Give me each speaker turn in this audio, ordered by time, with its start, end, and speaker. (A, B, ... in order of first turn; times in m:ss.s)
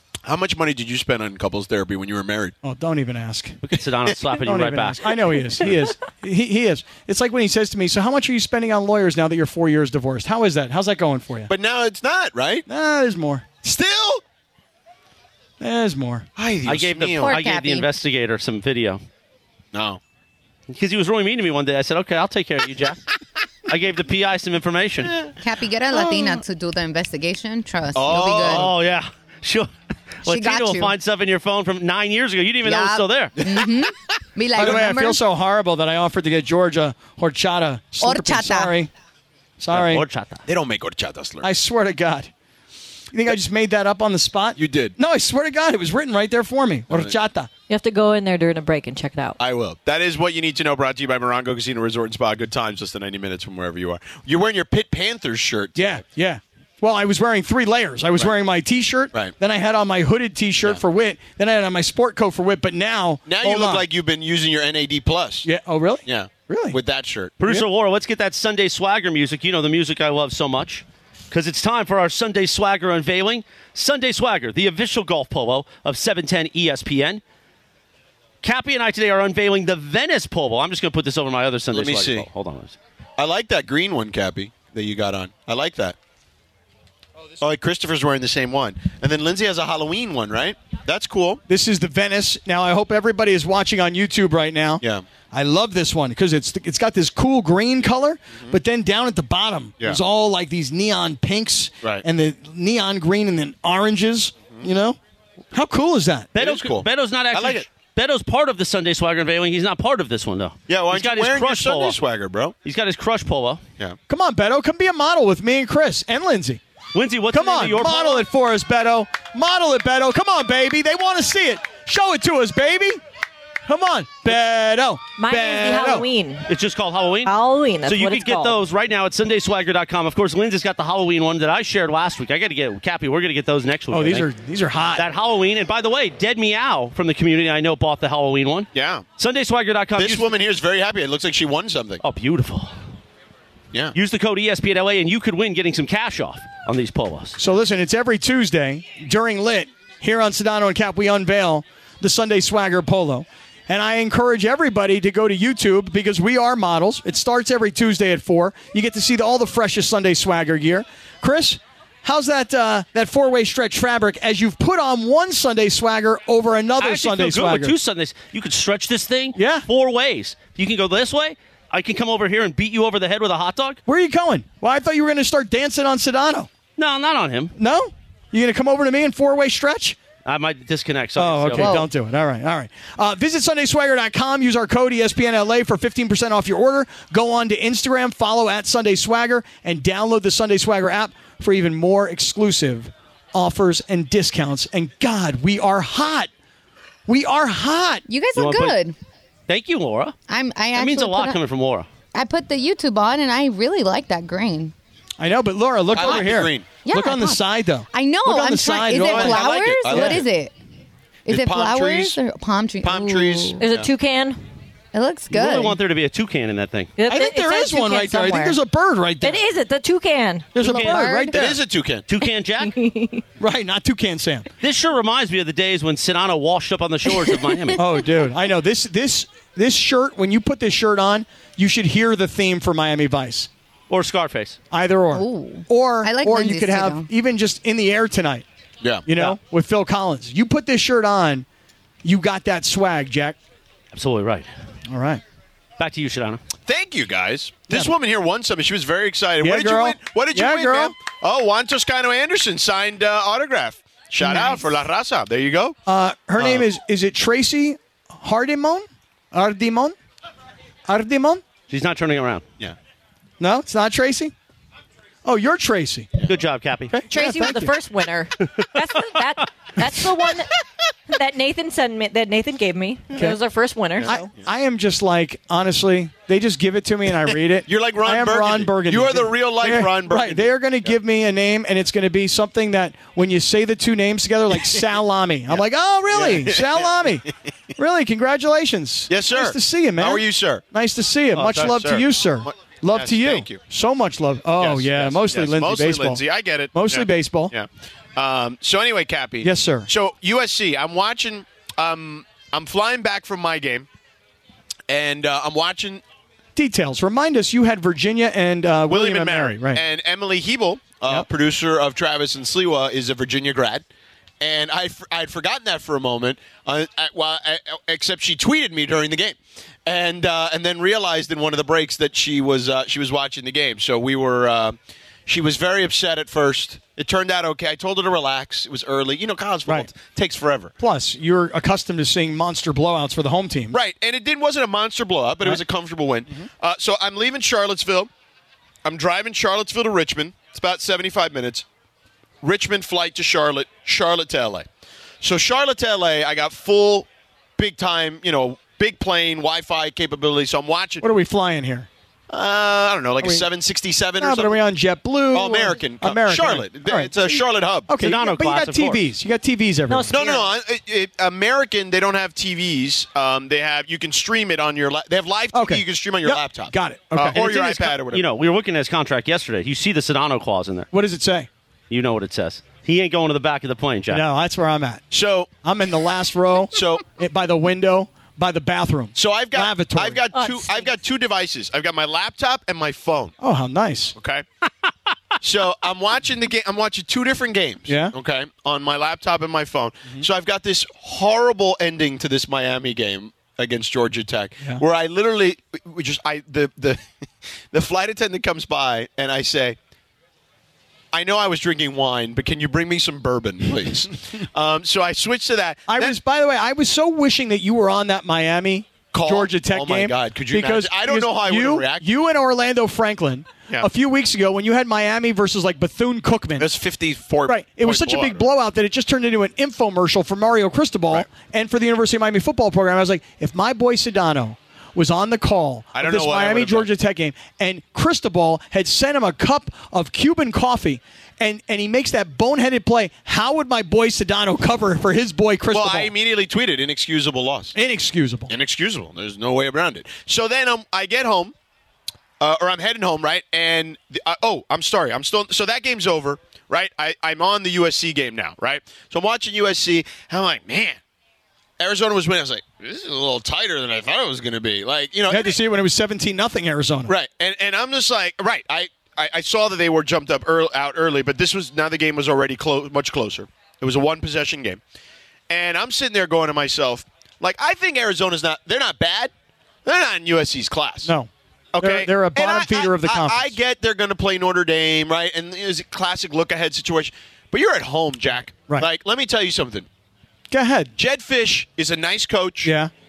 0:00.2-0:02.5 A
0:02.6-0:03.6 B
0:03.6-0:05.1 C
0:04.4-0:11.5 B
0:11.5-0:12.7 A
0:12.7-0:13.5 B
0:13.6-0:14.2 A
0:15.6-0:16.3 B
0:16.4-0:17.4 A
0:16.7-0:19.0 C
0:17.2-0:17.9 D
0:19.7-0:20.0 A
0:20.7-0:23.0 C
0:23.7-0:25.2 C
0:25.4-0:28.7 D
0:25.9-0:26.4 A
0:28.0-0:28.8 A
0:28.4-0:29.7 C
0:30.2-0:33.3 C
0:30.3-0:30.9 D
0:32.6-0:35.2 D
0:34.6-0:38.9 B
0:34.6-0:34.8 A
0:38.0-0:38.7 D
0:39.6-0:40.0 B
0:39.7-0:40.4 C
0:40.5-0:41.5 A
0:41.4-0:42.3 B
0:43.1-0:47.5 B
0:44.6-0:44.9 A
0:47.7-0:49.4 E
0:49.4-0:56.0 A
0:55.8-1:03.9 B
1:03.3-1:05.5 A
1:05.4-1:06.8 B
1:06.1-1:07.4 A
1:07.4-1:17.2 C
1:18.4-1:22.8 C
1:21.7-1:22.3 A
1:23.2-1:26.0 A
1:27.4-1:31.4 A
1:31.5-1:45.0 B
1:45.5-1:46.3 B
1:46.4-1:47.7 A
1:46.4-1:52.0 C
1:50.7-1:52.5 A
1:52.6-1:53.6 C
1:54.1-1:56.6 B
1:56.9-1:58.3 C
1:57.3-2:03.0 B
2:03.7-2:06.1 B
2:05.2-2:06.5 E
2:06.5-2:07.3 C
2:07.2-2:08.6 E
2:07.8-2:14.3 C
2:13.9-2:15.1 B
2:15.0-2:20.3 C
2:18.7-2:19.0 A
2:20.0-2:22.0 A
2:22.0-2:22.7 C
2:23.9-2:27.4 C
2:27.4-2:47.8 B
2:46.8-2:53.8 C
2:49.3-2:49.7 B
2:53.9-2:56.5 B
2:56.8-2:57.5 C
2:57.6-3:00.0 B
3:00.2-3:01.8 C
3:01.2-3:16.3 B
3:01.5-3:01.9 D
3:17.1-3:18.0 B
3:18.1-3:19.0 D
3:18.3-3:18.8 C
3:19.5-3:20.2 C
3:20.3-3:21.4 D
3:20.8-3:21.8 C
3:22.1-3:24.7 D
3:25.2-3:30.2 B
3:25.9-3:26.7 A
3:26.8-3:30.5 D
3:28.9-3:30.3 A
3:31.3-3:33.6 D
3:31.3-3:32.2 A
3:32.8-3:33.9 A
3:33.6-3:34.4 E
3:34.9-3:35.8 D
3:35.3-3:36.9 C
3:37.0-3:38.2 E
3:37.1-3:39.4 B
3:38.0-3:38.6 D
3:39.2-3:40.5 E
3:40.5-3:41.6 B
3:40.6-3:41.3 D
3:41.3-3:42.1 A
3:42.1-3:42.8 C
3:42.6-3:43.2 E
3:43.4-3:44.5 B
3:44.6-3:47.8 C
3:47.8-3:53.5 B
3:53.9-3:54.6 C
3:54.7-3:58.4 B
3:55.1-3:57.1 D
3:59.1-4:01.5 B
4:02.0-4:03.4 B
4:03.9-4:04.5 C
4:04.9-4:05.2 B
4:05.8-4:06.4 C
4:06.7-4:15.8 A
4:09.4-4:11.0 B
4:14.2-4:14.6 B
4:15.8-4:20.0 B
4:16.4-4:16.6 A
4:20.9-4:21.4 B
4:21.7-4:22.4 C
4:23.4-4:24.3 B
4:25.2-4:26.1 B
4:26.2-4:27.0 C
4:26.9-4:27.8 B
4:27.1-4:30.5 E
4:31.1-4:34.2 E
4:34.0-4:56.2 B
4:37.6-4:40.5 A
4:46.1-4:46.9 A
4:49.1-4:50.6 A
4:51.3-4:53.6 A
4:54.6-5:03.9 A
4:56.7-4:57.5 B
4:59.4-4:59.9 B
5:04.9-5:06.0 A
5:06.6-5:09.8 B
5:08.9-5:13.8 A
5:14.4-5:24.8 A
5:25.3-5:30.7 A
5:30.8-5:33.8 B
5:33.7-5:38.1 A
5:38.8-5:41.6 A
5:42.4-5:44.7 A
5:45.2-5:51.0 A
5:51.0-5:51.9 B
5:52.3-5:54.6 A
5:53.2-5:53.5 B
5:54.2-5:57.3 B
5:55.3-5:57.9 A
5:57.9-6:00.2 B
5:58.0-5:59.0 C
5:59.9-6:00.5 E
6:00.1-6:08.2 A
6:05.5-6:08.0 B
6:08.1-6:10.9 C
6:10.9-6:11.5 B
6:11.9-6:14.2 C
6:14.1-6:15.0 B
6:15.1-6:15.5 A
6:15.6-6:20.2 B
6:16.7-6:17.0 A
6:19.2-6:23.3 A
6:20.3-6:20.9 E
6:23.4-6:24.1 B
6:24.2-6:24.4 A
6:25.4-6:37.0 A
6:27.9-6:28.1 B
6:37.7-6:39.8 A
6:41.1-6:46.2 A
6:45.9-6:56.7 B
6:49.1-6:52.1 A
6:56.6-6:58.4 A
6:57.5-7:16.1 B
7:05.9-7:06.9 A
7:15.7-7:17.8 A
7:17.8-7:18.5 B
7:18.5-7:21.5 A
7:22.4-7:31.0 A
7:31.8-7:35.6 A
7:35.3-7:37.1 B
7:37.1-7:44.8 A
7:45.5-7:49.3 A
7:49.8-7:51.1 A
7:51.0-7:53.6 B
7:51.7-7:59.9 A
8:00.5-8:00.9 B
8:01.0-8:02.7 A
8:02.6-8:02.9 B